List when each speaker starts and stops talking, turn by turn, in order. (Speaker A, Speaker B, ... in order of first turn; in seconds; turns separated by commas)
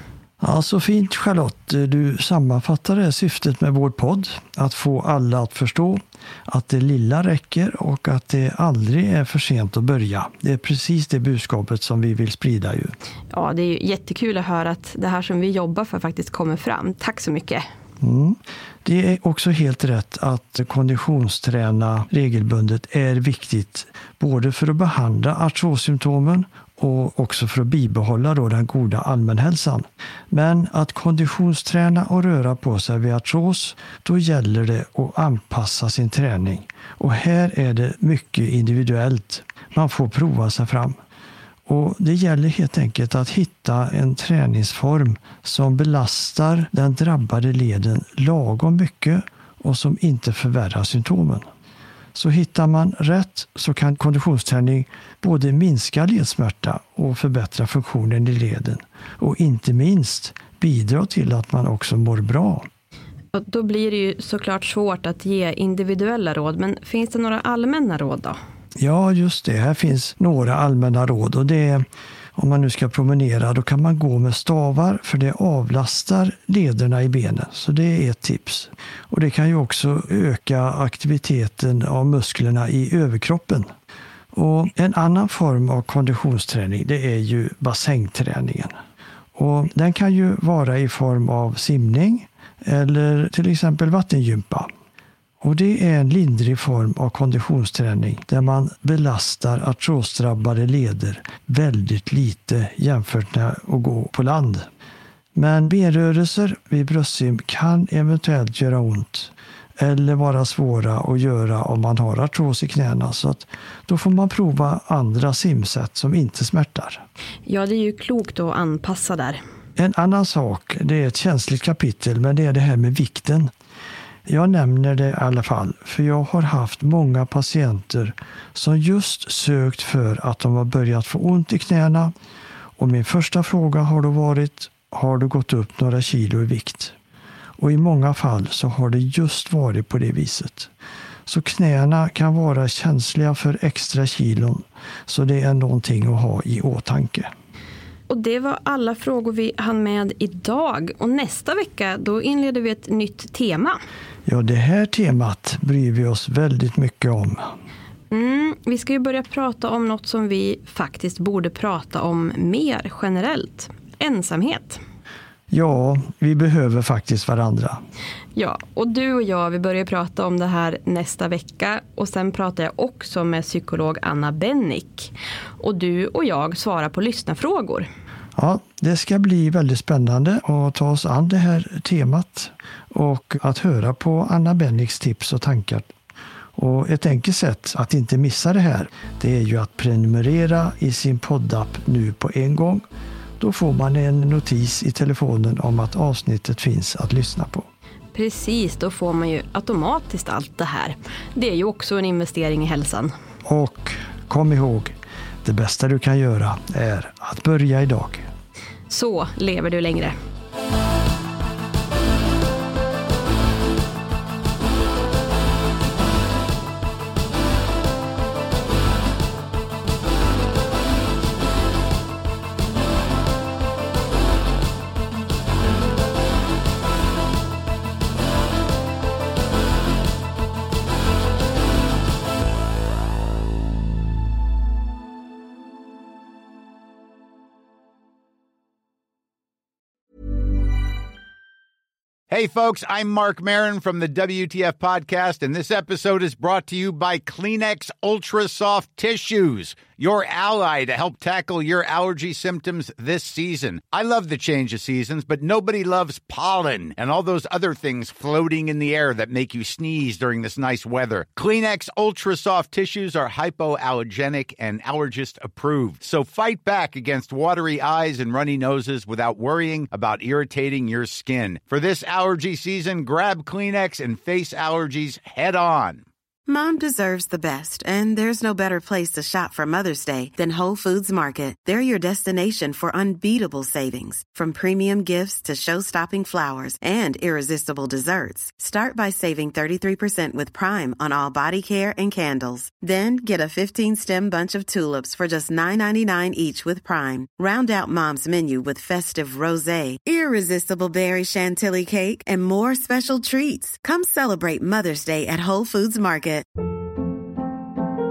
Speaker A: 0.4-12.9, Speaker B: 13.3-17.6, Speaker A: 18.0-41.0, Speaker A: 41.7-51.5, Speaker A: 52.1-62.7, Speaker B: 63.3-68.4, Speaker A: 68.8-83.7, Speaker A: 84.3-88.8, Speaker A: 89.3-94.7, Speaker A: 95.4-104.7, Speaker A: 105.3-117.0, Speaker B: 117.5-119.4, Speaker A: 119.8-123.5, Speaker A: 124.2-132.1, Speaker A: 132.8-136.9, Speaker A: 137.6-140.7, Speaker A: 141.2-147.3, Speaker B: 148.1-153.8, Speaker A: 154.2-157.5, Speaker B: 158.1-164.8, Speaker A: 165.5-167.8, Speaker B: 168.3-177.9, Speaker A: 178.3-185.9, Speaker A: 186.6-192.8, Speaker A: 193.4-197.7, Speaker B: 198.1-203.1, Speaker A: 203.4-208.3, Speaker B: 208.9-210.2, Speaker C: 242.3-276.1, Speaker D: 276.5-306.4